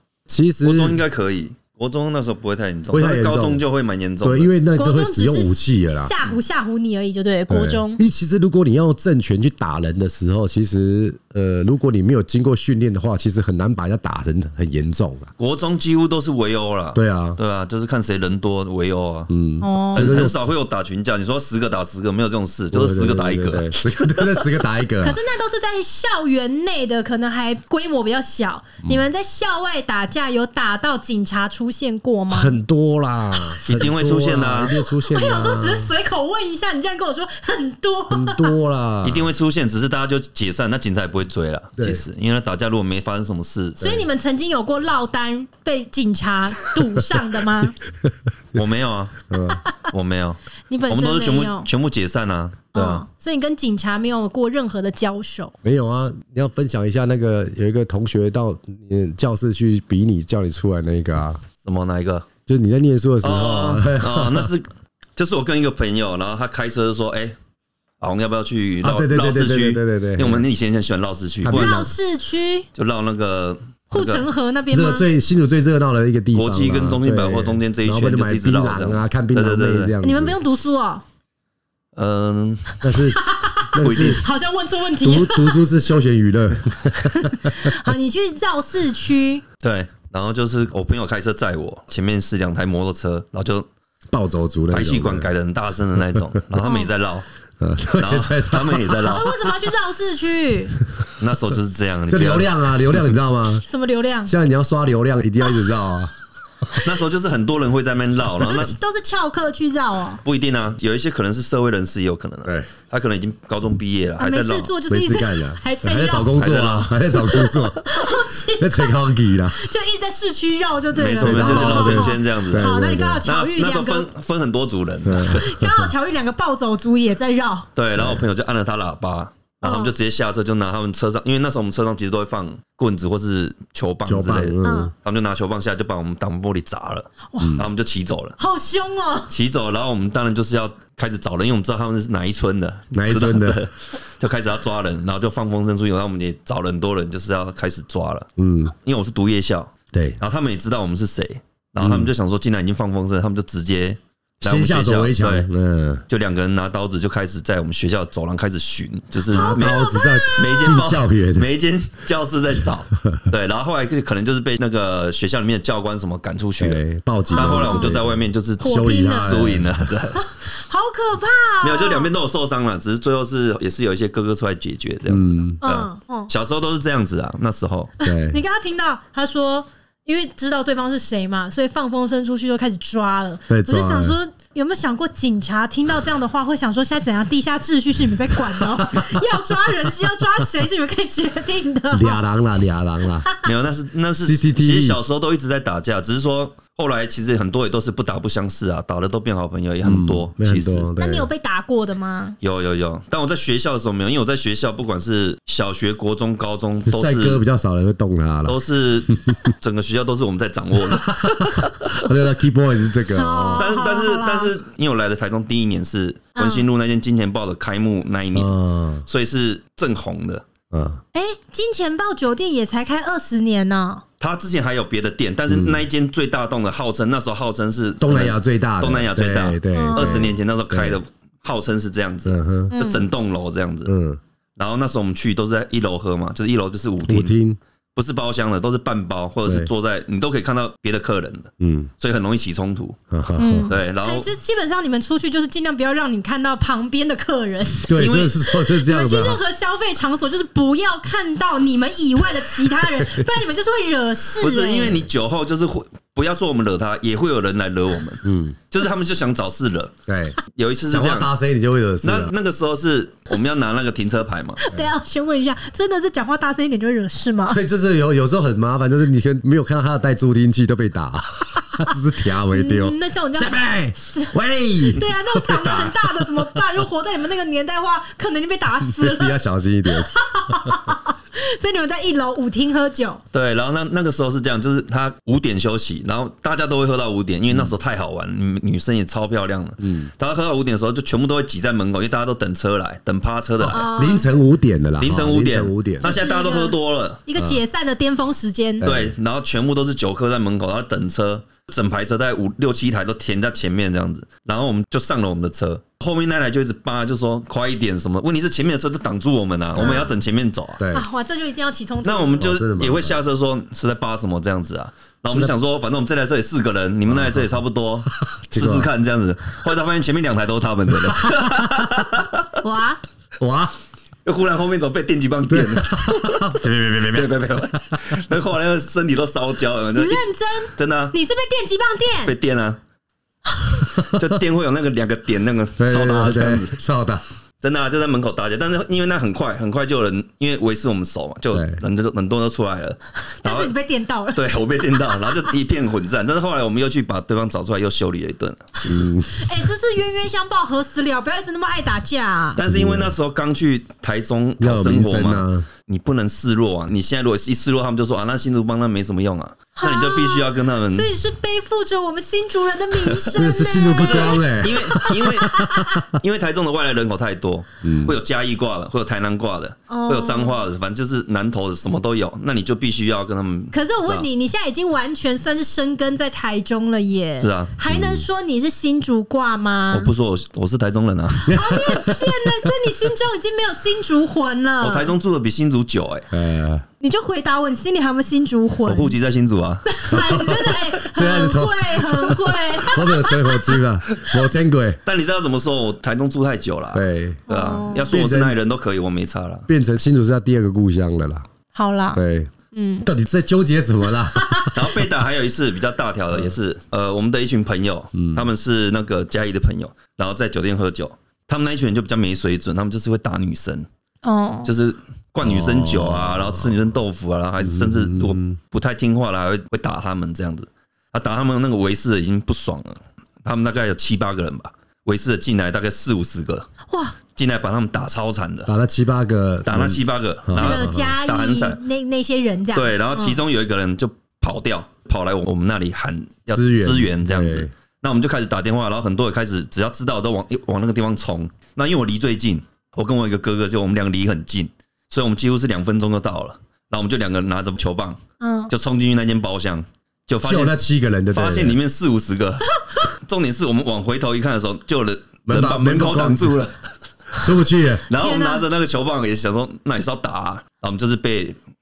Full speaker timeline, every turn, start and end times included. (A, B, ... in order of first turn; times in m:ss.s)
0:00.3-0:01.0 A
0:00.6-0:04.5 B
0:02.9-0:03.6 A
0:04.2-0:06.1 A
0:04.7-0:08.0 C
0:07.5-0:15.3 A
0:15.4-0:19.3 B
0:16.9-0:17.4 A
0:19.3-0:20.5 A
0:19.6-0:20.2 C
0:19.9-0:23.7 B
0:22.7-0:25.2 A
0:25.0-0:32.6 C
0:32.3-0:35.9 A
0:33.6-0:34.7 B
0:34.6-0:38.5 C
0:38.1-0:39.3 A
0:39.0-0:44.0 B
0:41.8-0:42.0 A
0:43.8-0:47.8 C
0:48.0-0:48.6 A
0:48.5-0:49.2 B
0:49.3-0:49.6 A
0:49.8-0:53.0 B
0:50.7-0:51.7 C
0:52.7-0:55.5 C
0:55.6-1:01.4 A
1:01.6-1:02.3 B
1:02.5-1:04.5 A
1:03.2-1:07.3 B
1:08.0-1:11.9 B
1:08.8-1:10.4 A
1:11.4-1:11.9 A
1:11.5-1:12.7 C
1:12.7-1:14.2 B
1:13.9-1:15.1 C
1:14.7-1:20.4 A
1:16.3-1:19.9 B
1:20.0-1:21.0 C
1:22.0-1:22.8 B
1:22.8-1:24.2 A
1:23.2-1:25.6 C
1:23.8-1:24.2 B
1:25.0-1:27.7 A
1:26.9-1:29.4 C
1:29.6-1:33.7 B
1:34.1-1:35.3 A
1:34.7-1:37.2 B
1:36.6-1:36.9 C
1:37.6-1:39.2 A
1:37.9-1:39.4 B
1:39.0-1:40.8 C
1:41.2-1:43.0 B
1:42.1-1:43.6 A
1:43.6-1:44.3 C
1:44.2-1:46.1 A
1:46.8-1:48.8 B
1:48.4-1:50.2 C
1:50.2-1:54.7 B
1:52.4-1:52.7 A
1:54.2-1:56.3 C
1:54.9-1:59.6 A
1:56.3-1:56.9 B
1:57.1-2:04.1 C
2:00.9-2:02.7 B
2:01.2-2:03.2 A
2:03.2-2:05.5 B
2:05.0-2:05.9 A
2:05.3-2:07.7 C
2:07.8-2:18.4 B
2:07.9-2:08.2 A
2:09.6-2:09.9 C
2:14.0-2:14.9 A
2:14.6-2:14.9 C
2:17.3-2:17.6 C
2:17.4-2:17.7 A
2:18.4-2:19.3 C
2:19.3-2:28.3 B
2:22.9-2:23.6 A
2:28.4-2:28.7 A
2:28.8-2:35.5 B
2:29.9-2:30.2 A
2:31.8-2:32.1 A
2:34.4-2:36.0 A
2:36.1-2:50.2 B
2:39.3-2:41.5 A
2:39.3-2:40.8 C
2:43.0-2:43.2 A
2:46.6-2:49.9 A
2:47.3-2:48.0 C
2:48.6-2:49.5 C
2:50.1-2:52.1 C
2:51.6-2:57.9 B
2:55.1-2:55.6 A
2:55.6-2:56.3 C
2:58.0-3:12.2 C
2:58.0-2:58.4 A
3:03.5-3:04.2 A
3:08.8-3:09.1 A
3:11.9-3:13.3 A
3:13.4-3:20.9 B
3:14.2-3:15.0 A
3:19.8-3:21.3 A
3:21.0-3:22.4 C
3:22.4-3:27.4 B
3:26.8-3:28.6 A
3:28.4-3:32.0 B
3:29.1-3:29.4 A
3:30.8-3:33.7 A
3:33.1-3:34.5 C
3:33.5-3:38.5 B
3:36.4-3:36.6 C
3:38.3-3:39.0 A
3:39.1-3:40.4 B
3:40.7-3:41.0 A
3:41.1-3:44.0 C
3:44.2-3:53.9 B
3:45.5-3:45.8 A
3:48.0-3:51.0 A
3:49.7-3:50.3 C
3:52.2-3:52.7 A
3:52.7-3:53.0 C
3:53.8-3:54.2 A
3:54.6-3:57.3 B
3:57.1-3:57.6 A
3:58.0-4:03.0 B
3:59.4-3:59.7 A
4:01.6-4:01.9 A
4:03.1-4:03.7 A
4:03.4-4:07.9 C
4:03.7-4:04.3 B
4:07.8-4:09.4 A
4:07.9-4:08.4 B
4:08.4-4:15.0 C
4:12.8-4:13.3 A
4:14.4-4:19.9 B
4:18.2-4:18.6 A
4:20.1-4:20.4 A
4:20.5-4:21.3 B
4:20.9-4:22.3 A
4:22.0-4:24.6 B
4:24.6-4:27.6 C
4:27.5-4:36.4 A
4:32.5-4:39.4 C
4:38.9-4:40.8 A
4:39.9-4:43.2 C
4:43.3-4:53.9 B
4:49.8-4:50.1 A
4:53.6-4:54.3 C
4:53.9-4:56.1 A
4:55.0-4:57.2 B
4:56.0-4:58.9 C
4:58.8-4:59.1 A
4:58.8-5:10.8 B
5:09.8-5:10.1 C
5:10.8-5:11.1 A
5:10.9-5:12.4 C
5:12.0-5:22.5 B
5:12.4-5:13.2 A
5:17.1-5:17.5 A
5:18.5-5:18.9 A
5:21.0-5:22.0 A
5:22.6-5:23.0 C
5:23.4-5:23.7 A
5:24.2-5:26.5 B
5:25.5-5:28.2 A
5:27.1-5:31.1 B
5:29.9-5:32.3 C
5:32.2-5:32.8 B
5:33.5-5:33.8 C
5:34.0-5:34.3 A
5:34.0-5:36.8 B
5:35.8-5:37.2 A
5:37.6-5:43.7 B
5:41.5-5:41.8 A
5:43.3-5:45.5 C
5:44.3-5:49.0 B
5:48.8-5:49.5 A
5:49.4-5:52.6 C
5:52.6-6:01.1 B
5:52.6-5:53.1 A
5:54.6-5:55.7 A
5:59.8-6:06.0 C
6:03.4-6:06.1 A
6:04.0-6:14.3 B
6:07.8-6:08.2 A
6:09.9-6:10.6 C
6:13.7-6:20.1 C
6:17.4-6:17.7 B
6:17.9-6:18.2 A
6:19.9-6:21.5 B
6:21.4-6:25.1 C
6:21.5-6:22.7 A
6:24.8-6:26.3 B
6:26.3-6:26.8 A
6:27.0-6:29.1 C
6:28.8-6:30.4 B
6:29.8-6:33.8 C
6:30.1-6:35.0 A
6:35.0-6:39.7 B
6:36.9-6:37.4 A
6:37.5-6:38.1 C
6:38.1-6:38.6 A
6:39.7-6:41.4 A
6:41.7-6:42.2 C
6:42.1-6:42.5 A
6:42.7-6:43.1 C
6:43.0-6:44.8 A
6:44.3-6:44.7 C
6:44.7-6:53.8 B
6:48.1-6:48.5 A
6:54.2-6:54.7 C
6:54.6-7:06.7 B
6:55.4-6:56.8 A
6:57.6-6:58.6 A
7:06.9-7:07.1 C
7:07.4-7:08.7 B
7:08.7-7:11.1 A
7:09.6-7:11.8 B
7:10.6-7:13.4 C
7:12.7-7:30.8 B
7:16.5-7:17.7 A
7:28.4-7:28.7 C
7:30.4-7:31.8 A
7:31.3-7:36.8 B
7:35.4-7:36.6 A
7:37.3-7:38.0 A
7:38.1-7:41.6 B
7:38.1-7:38.6 C